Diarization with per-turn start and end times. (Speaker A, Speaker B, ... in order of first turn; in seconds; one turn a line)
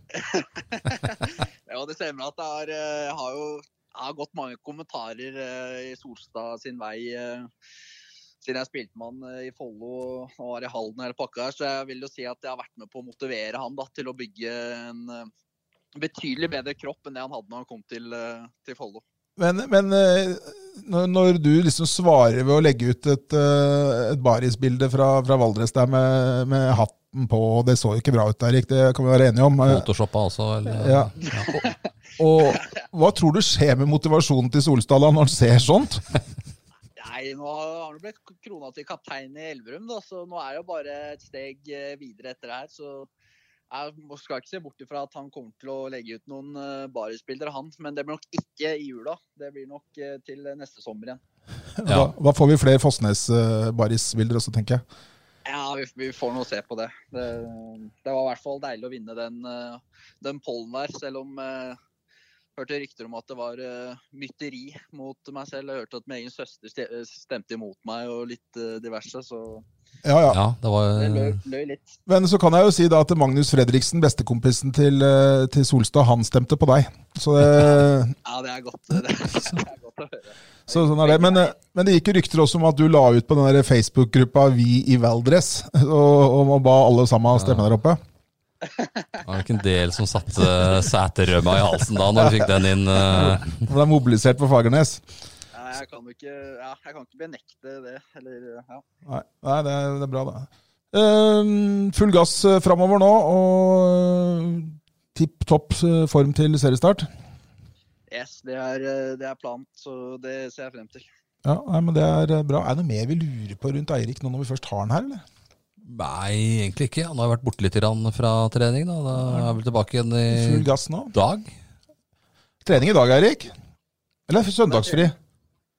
Speaker A: 0.1-7.5
Speaker A: 8.4-15.3
Speaker A: 16.0-19.0
Speaker B: 19.4-29.9
Speaker C: 29.6-31.6
Speaker B: 30.7-36.0
Speaker A: 37.0-43.1
Speaker A: 43.7-51.2
Speaker B: 51.8-54.8
Speaker C: 51.9-52.1
Speaker A: 55.5-61.8
Speaker A: 62.6-69.7
Speaker B: 70.0-70.4
Speaker C: 70.3-71.4
Speaker A: 71.0-72.0
Speaker B: 72.1-78.2
Speaker A: 78.2-81.5
Speaker B: 80.7-88.0
Speaker C: 87.3-87.7
Speaker A: 88.6-89.2
Speaker C: 89.2-93.7
Speaker B: 92.0-95.0
Speaker A: 95.5-98.8
Speaker B: 99.0-107.1
Speaker A: 108.1-111.1
Speaker B: 111.5-115.2
Speaker C: 115.8-121.5
Speaker B: 119.2-119.5
Speaker B: 120.3-121.1
Speaker B: 122.6-123.5
Speaker B: 124.3-125.2
Speaker A: 124.7-125.1